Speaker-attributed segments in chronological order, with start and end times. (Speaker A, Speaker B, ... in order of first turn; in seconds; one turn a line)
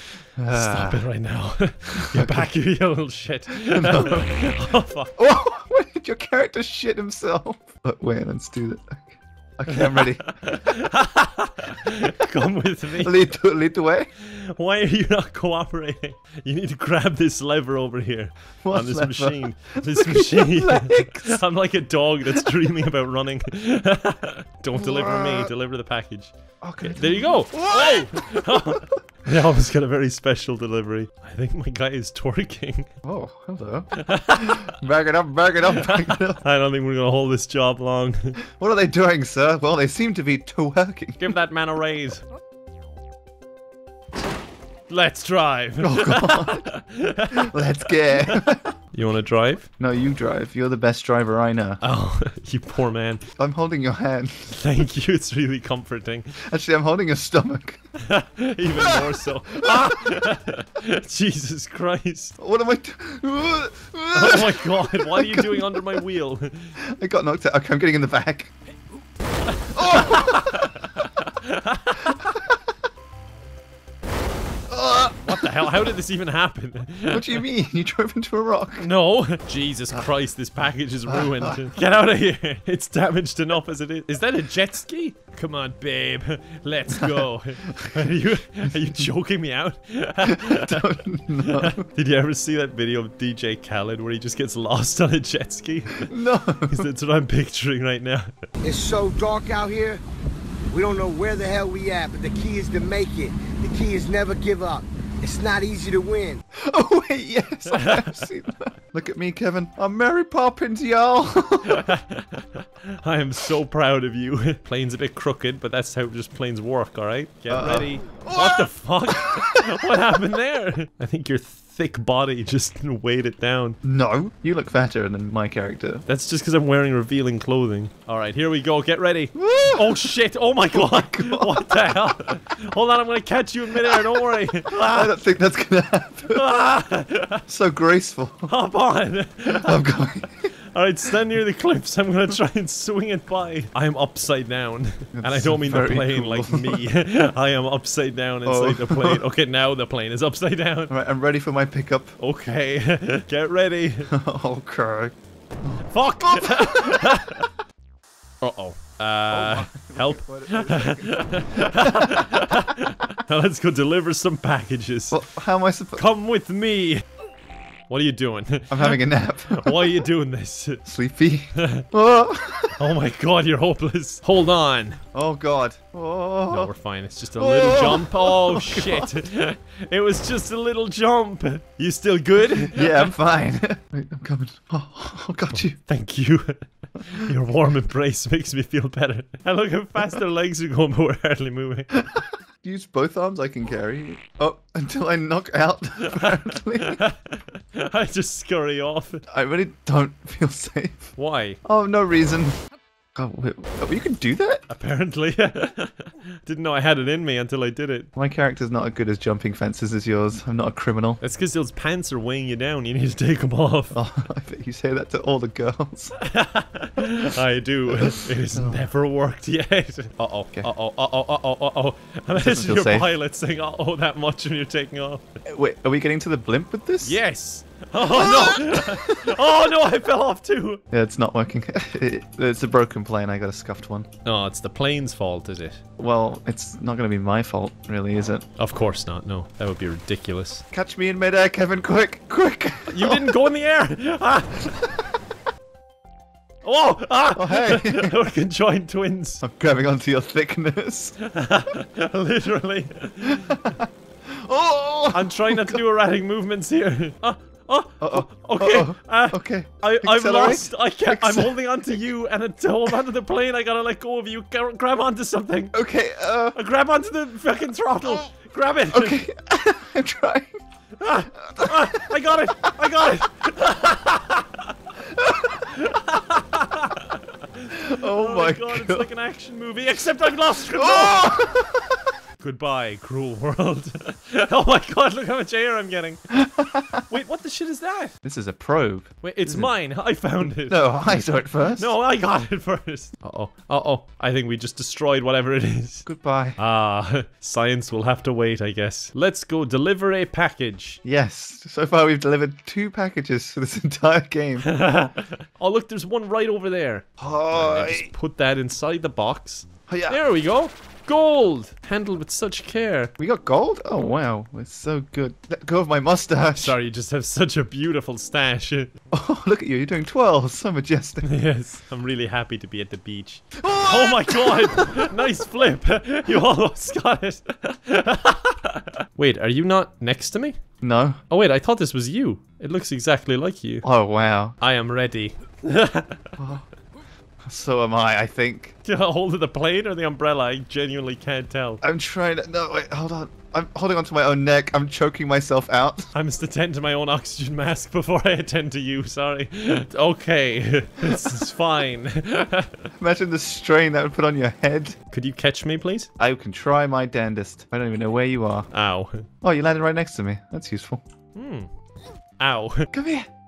Speaker A: 0.4-1.1
Speaker B: 0.5-5.2
Speaker A: 2.0-2.5
Speaker A: 3.6-4.4
Speaker A: 5.2-10.4
Speaker B: 9.7-13.2
Speaker A: 13.0-14.1
Speaker B: 14.2-26.3
Speaker A: 18.6-21.4
Speaker A: 22.3-22.8
Speaker A: 24.7-25.5
Speaker A: 26.6-29.0
Speaker B: 26.8-32.9
Speaker A: 33.0-36.4
Speaker B: 34.0-34.7
Speaker B: 35.7-38.4
Speaker A: 38.6-41.4
Speaker B: 41.2-42.2
Speaker B: 44.9-47.5
Speaker A: 45.8-46.7
Speaker A: 47.3-48.7
Speaker B: 48.9-49.7
Speaker A: 49.8-51.8
Speaker B: 51.8-53.2
Speaker A: 53.4-54.5
Speaker B: 54.5-56.4
Speaker A: 56.4-57.8
Speaker B: 58.0-62.4
Speaker A: 58.8-60.3
Speaker A: 62.4-66.0
Speaker B: 64.1-66.7
Speaker A: 66.8-68.5
Speaker B: 69.6-72.3
Speaker A: 69.8-70.8
Speaker A: 72.2-72.5
Speaker A: 74.7-75.8
Speaker B: 75.2-77.4
Speaker A: 77.1-78.9
Speaker B: 78.8-96.1
Speaker A: 81.1-81.7
Speaker A: 86.9-88.2
Speaker A: 90.2-91.8
Speaker A: 96.0-96.9
Speaker B: 96.7-98.3
Speaker C: 98.6-100.0
Speaker C: 100.7-106.4
Speaker A: 106.5-111.9
Speaker B: 107.7-108.2
Speaker B: 111.7-123.8
Speaker A: 117.5-120.2
Speaker A: 123.8-126.0
Speaker B: 126.1-135.1
Speaker A: 129.4-130.1
Speaker A: 130.7-131.8
Speaker A: 133.9-134.1
Speaker A: 134.8-136.5
Speaker B: 136.3-137.4
Speaker A: 137.5-138.5
Speaker B: 138.5-139.8
Speaker A: 139.5-140.5
Speaker B: 140.7-150.9
Speaker A: 145.2-146.9
Speaker A: 148.4-149.2
Speaker A: 150.9-152.1
Speaker B: 152.2-154.1
Speaker A: 154.1-157.2
Speaker B: 155.9-157.5
Speaker B: 158.4-165.2
Speaker A: 159.3-162.2
Speaker A: 165.1-166.1
Speaker B: 166.0-167.1
Speaker B: 167.9-170.8
Speaker A: 168.7-170.1
Speaker A: 170.9-172.8
Speaker B: 171.6-171.9
Speaker B: 172.8-175.0
Speaker A: 175.1-176.7
Speaker B: 176.5-183.1
Speaker A: 177.4-179.2
Speaker A: 182.7-185.8
Speaker B: 185.5-192.0
Speaker A: 191.9-197.0
Speaker B: 196.0-199.2
Speaker A: 199.3-202.6
Speaker B: 201.2-201.6
Speaker A: 203.2-204.7
Speaker B: 204.7-208.1
Speaker A: 208.2-211.2
Speaker B: 211.2-214.0
Speaker A: 213.9-216.2
Speaker B: 216.2-225.2
Speaker A: 217.9-218.9
Speaker A: 222.4-223.1
Speaker A: 225.5-227.2
Speaker B: 227.0-230.8
Speaker A: 228.0-229.2
Speaker A: 230.9-234.1
Speaker B: 234.2-235.8
Speaker A: 236.0-238.5
Speaker B: 238.6-240.6
Speaker A: 240.7-243.3
Speaker B: 242.9-244.8
Speaker B: 246.6-249.4
Speaker A: 247.3-248.2
Speaker A: 249.4-251.2
Speaker B: 251.2-253.7
Speaker A: 253.2-255.8
Speaker B: 255.1-265.8
Speaker A: 258.0-261.6
Speaker A: 265.7-266.6
Speaker B: 266.6-269.2
Speaker A: 268.9-270.6
Speaker B: 271.0-274.7
Speaker A: 271.6-272.1
Speaker A: 275.1-275.5
Speaker B: 275.3-281.3
Speaker A: 277.7-279.1
Speaker A: 280.7-282.1
Speaker B: 282.4-286.2
Speaker A: 286.3-287.1
Speaker B: 287.1-288.1
Speaker A: 288.2-289.7
Speaker B: 289.2-296.1
Speaker A: 290.6-291.9
Speaker A: 296.1-296.6
Speaker B: 296.6-301.0
Speaker A: 301.0-304.7
Speaker B: 304.6-313.1
Speaker A: 307.2-308.1
Speaker A: 309.9-310.2
Speaker A: 313.2-316.8
Speaker B: 316.6-318.9
Speaker A: 319.1-321.3
Speaker B: 321.2-330.6
Speaker A: 323.6-325.1
Speaker A: 330.8-331.2
Speaker B: 331.3-333.9
Speaker A: 333.8-334.6
Speaker B: 334.6-336.3
Speaker A: 336.4-336.6
Speaker A: 337.5-338.8
Speaker B: 338.9-341.8
Speaker A: 341.8-346.1
Speaker B: 346.1-352.9
Speaker A: 353.0-355.0
Speaker B: 355.1-356.1
Speaker A: 356.2-358.7
Speaker B: 358.7-359.3
Speaker A: 359.4-361.0
Speaker B: 361.4-361.7
Speaker B: 362.4-362.9
Speaker A: 362.9-363.3